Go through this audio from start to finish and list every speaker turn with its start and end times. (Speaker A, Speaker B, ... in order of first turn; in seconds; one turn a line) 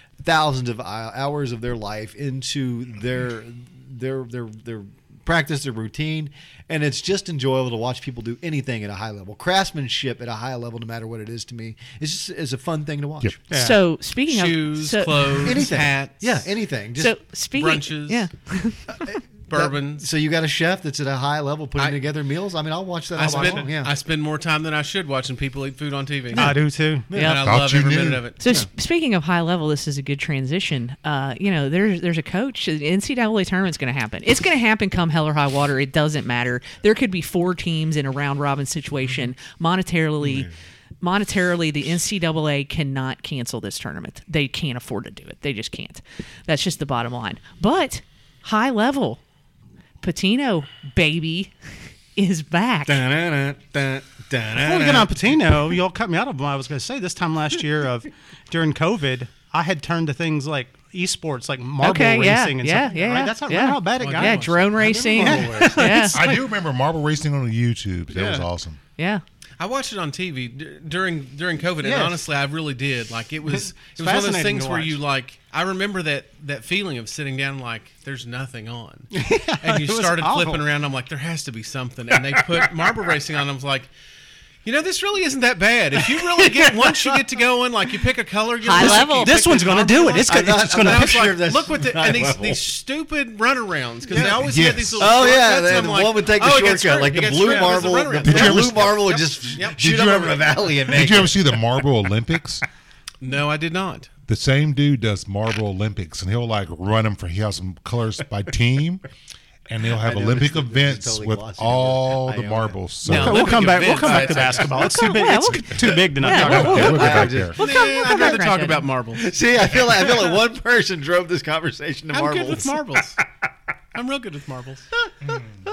Speaker A: 0.2-13.4
Speaker B: 13.5-13.8
Speaker C: 13.5-15.7
Speaker D: 14.3-16.5
Speaker A: 15.4-17.1
Speaker C: 16.9-19.2
Speaker D: 17.6-18.3
Speaker A: 18.9-23.9
Speaker D: 19.5-20.1
Speaker D: 23.1-26.6
Speaker B: 23.2-23.7
Speaker A: 26.3-27.4
Speaker B: 26.3-27.1
Speaker D: 27.1-28.4
Speaker C: 27.1-27.4
Speaker E: 27.4-28.2
Speaker C: 28.4-40.5
Speaker A: 40.2-40.5
Speaker C: 41.0-49.2
Speaker C: 50.0-51.5
Speaker C: 52.1-53.0
Speaker A: 52.9-55.3
Speaker B: 54.5-66.4
Speaker C: 61.8-66.2
Speaker D: 64.0-64.6
Speaker A: 64.8-65.9
Speaker E: 66.1-68.8
Speaker B: 68.1-68.5
Speaker C: 69.0-69.2
Speaker D: 69.6-83.9
Speaker B: 71.8-72.2
Speaker B: 73.5-75.0
Speaker B: 79.1-80.6
Speaker A: 82.4-83.1
Speaker D: 84.6-99.8
Speaker A: 86.2-87.2
Speaker C: 88.6-89.4
Speaker B: 88.8-91.2
Speaker A: 90.2-92.6
Speaker E: 94.4-95.1
Speaker A: 95.0-101.5
Speaker E: 98.2-102.6
Speaker D: 103.2-104.1
Speaker E: 104.3-109.0
Speaker E: 109.7-113.6
Speaker A: 109.9-112.8
Speaker D: 113.0-115.0
Speaker B: 113.1-117.0
Speaker A: 113.5-114.7
Speaker C: 114.8-118.9
Speaker A: 115.8-118.4
Speaker E: 116.3-117.6
Speaker D: 117.5-120.2
Speaker A: 119.1-123.0
Speaker D: 122.1-123.2
Speaker D: 123.9-124.9